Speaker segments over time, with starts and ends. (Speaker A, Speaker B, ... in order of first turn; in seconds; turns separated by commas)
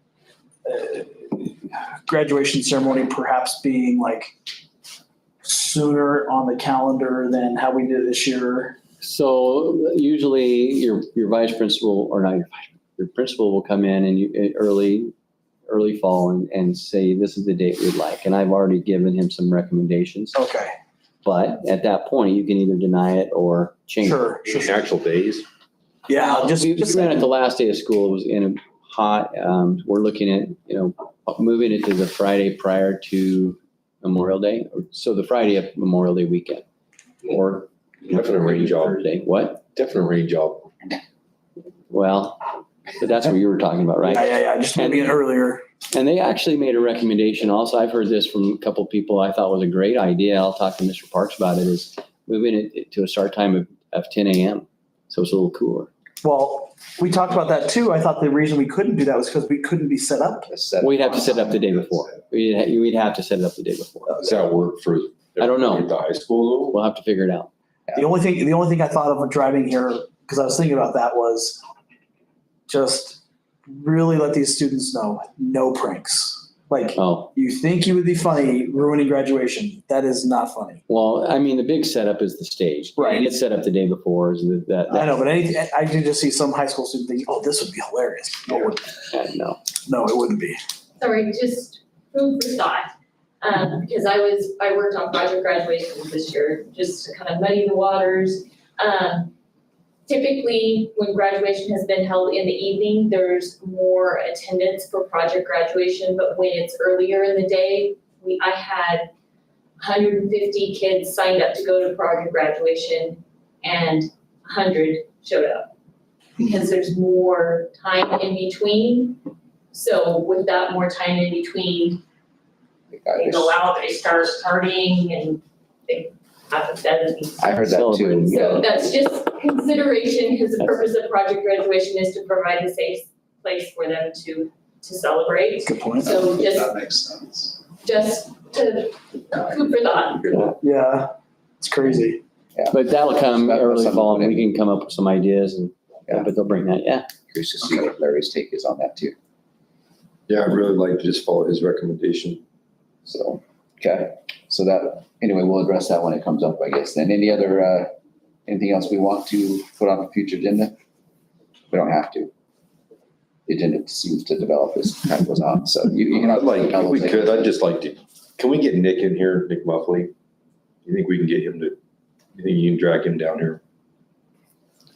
Speaker A: 0.6-1.5, Speaker A: 2.1-4.3, Speaker A: 5.4-8.8, Speaker B: 9.0-15.1, Speaker B: 15.7-20.4, Speaker A: 20.3-20.7, Speaker B: 21.2-24.3, Speaker A: 24.0-24.7, Speaker C: 24.4-25.4, Speaker A: 26.1-27.2, Speaker B: 26.1-36.6, Speaker B: 37.3-39.6, Speaker C: 38.1-39.0, Speaker C: 39.7-40.7, Speaker B: 41.9-45.2, Speaker A: 44.1-45.6, Speaker B: 45.9-55.9, Speaker A: 56.2-60.5, Speaker D: 60.5-62.2, Speaker B: 60.8-64.3, Speaker C: 64.2-66.8, Speaker B: 65.4-65.9, Speaker B: 66.7-67.5, Speaker A: 67.9-71.6, Speaker A: 72.7-80.8, Speaker B: 76.9-77.3, Speaker B: 80.9-85.2, Speaker A: 83.0-83.3, Speaker A: 84.9-88.8, Speaker B: 89.1-89.6, Speaker A: 89.9-90.6, Speaker E: 91.0-99.3, Speaker E: 100.1-109.1, Speaker E: 109.8-115.7, Speaker E: 116.4-119.2, Speaker E: 119.7-122.0, Speaker D: 122.9-123.6, Speaker E: 123.2-127.5, Speaker D: 127.4-128.4, Speaker B: 127.5-128.7, Speaker E: 128.3-136.8, Speaker A: 135.7-136.1, Speaker E: 137.8-140.3, Speaker A: 140.6-142.2, Speaker D: 142.6-144.5, Speaker B: 142.7-147.1, Speaker D: 147.3-149.2, Speaker C: 150.3-152.4, Speaker D: 153.1-157.9, Speaker D: 158.5-160.7, Speaker D: 161.7-162.3, Speaker D: 163.5-167.5, Speaker C: 166.1-170.1, Speaker C: 170.8-171.8, Speaker C: 172.4-173.6